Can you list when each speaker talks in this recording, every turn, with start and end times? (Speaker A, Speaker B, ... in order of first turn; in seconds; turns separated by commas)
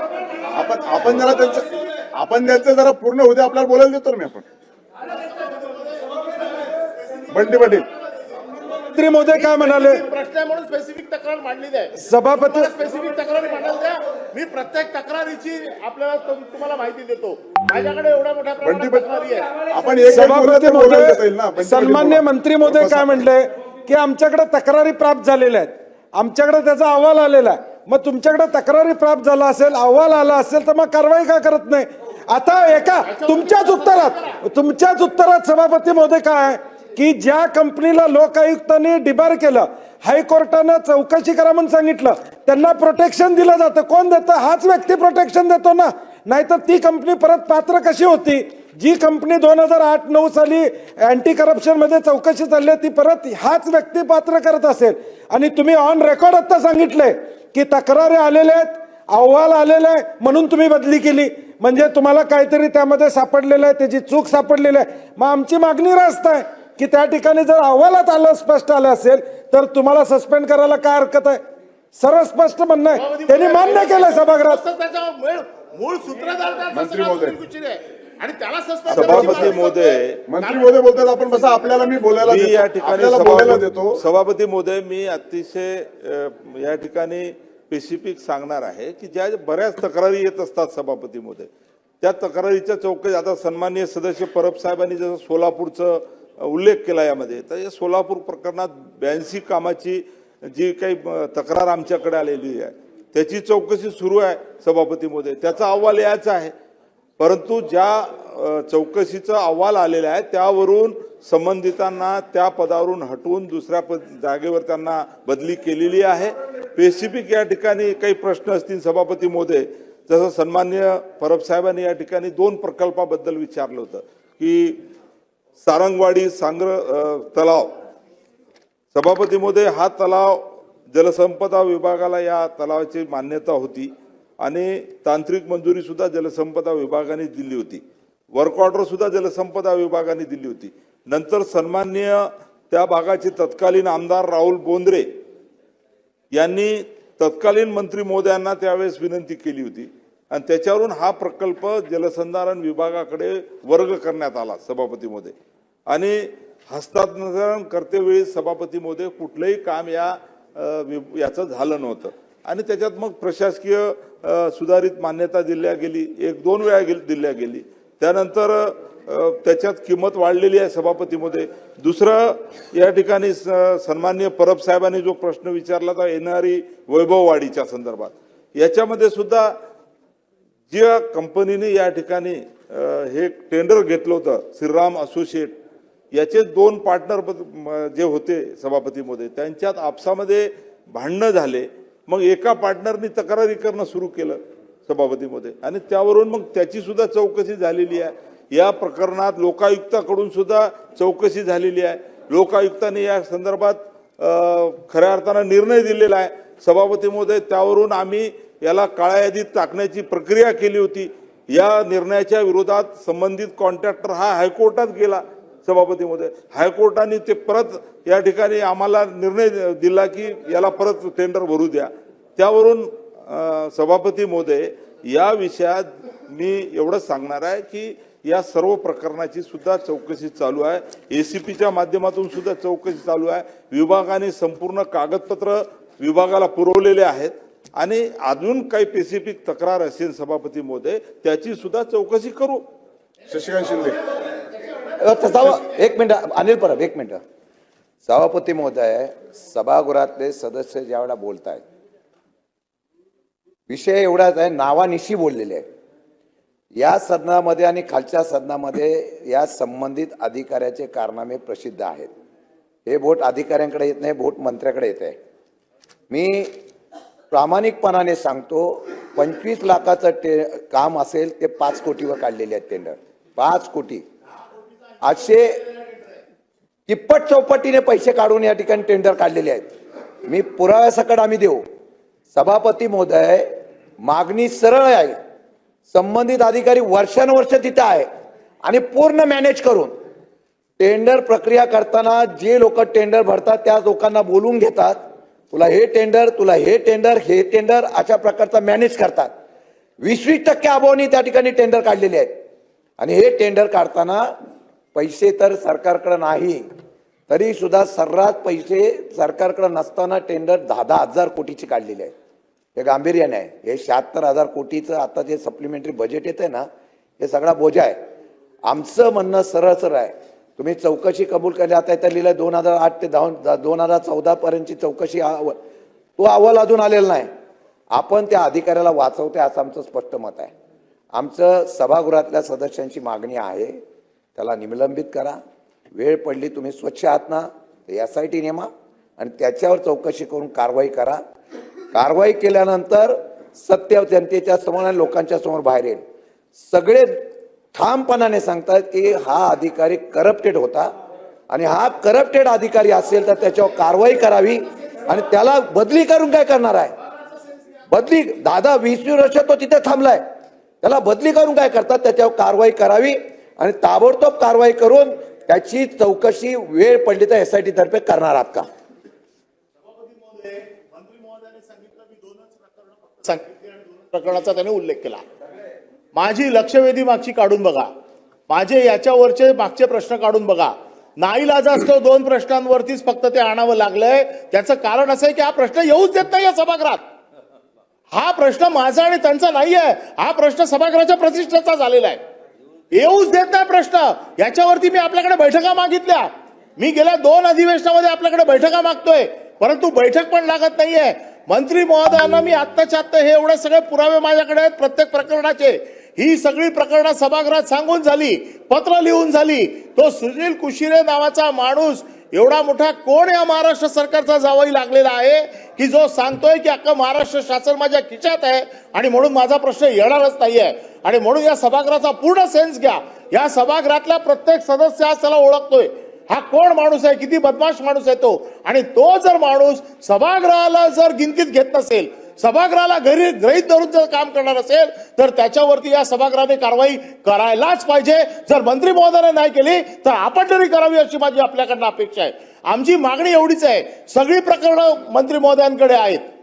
Speaker A: 0.5-4.4, Speaker A: 7.3-7.8, Speaker B: 8.9-10.0, Speaker C: 9.3-19.5, Speaker B: 12.0-12.7, Speaker A: 18.6-19.0, Speaker A: 19.6-23.1, Speaker B: 20.1-71.4, Speaker C: 33.0-34.4, Speaker B: 71.9-74.6, Speaker C: 72.9-80.7, Speaker A: 76.7-77.3, Speaker A: 78.9-79.5, Speaker D: 78.9-80.2, Speaker A: 80.2-84.0, Speaker D: 82.2-91.5, Speaker D: 92.0-106.5, Speaker D: 107.2-124.8, Speaker D: 125.6-127.7, Speaker D: 128.9-133.9, Speaker D: 134.4-137.8, Speaker D: 138.3-145.1, Speaker D: 146.3-155.3, Speaker D: 155.9-179.5, Speaker D: 180.7-185.6, Speaker D: 186.1-242.6, Speaker A: 243.3-243.9, Speaker E: 245.0-247.2, Speaker E: 248.0-251.6, Speaker E: 253.7-255.6, Speaker E: 256.8-262.1, Speaker E: 262.9-265.1, Speaker E: 266.1-266.5, Speaker E: 267.3-274.0, Speaker E: 275.0-275.7, Speaker E: 276.9-279.7, Speaker E: 280.2-281.6, Speaker E: 282.3-283.5, Speaker E: 284.0-285.2, Speaker E: 285.9-288.1, Speaker E: 288.6-289.9, Speaker E: 290.8-295.0, Speaker E: 295.5-299.3, Speaker E: 300.0-302.3, Speaker E: 303.0-304.3, Speaker E: 304.9-306.6, Speaker E: 307.3-312.1, Speaker E: 312.8-316.7, Speaker E: 317.2-318.0, Speaker E: 318.7-325.6, Speaker E: 326.2-327.3, Speaker E: 327.9-330.5, Speaker E: 331.1-333.8, Speaker E: 334.4-335.4, Speaker E: 335.9-341.2, Speaker E: 341.9-346.0, Speaker E: 346.6-347.2, Speaker E: 347.7-350.9, Speaker E: 351.5-356.9, Speaker E: 357.9-360.2, Speaker E: 360.8-368.7, Speaker C: 369.9-375.2, Speaker C: 376.1-377.9, Speaker C: 378.5-387.0, Speaker C: 388.1-392.2, Speaker C: 392.9-446.2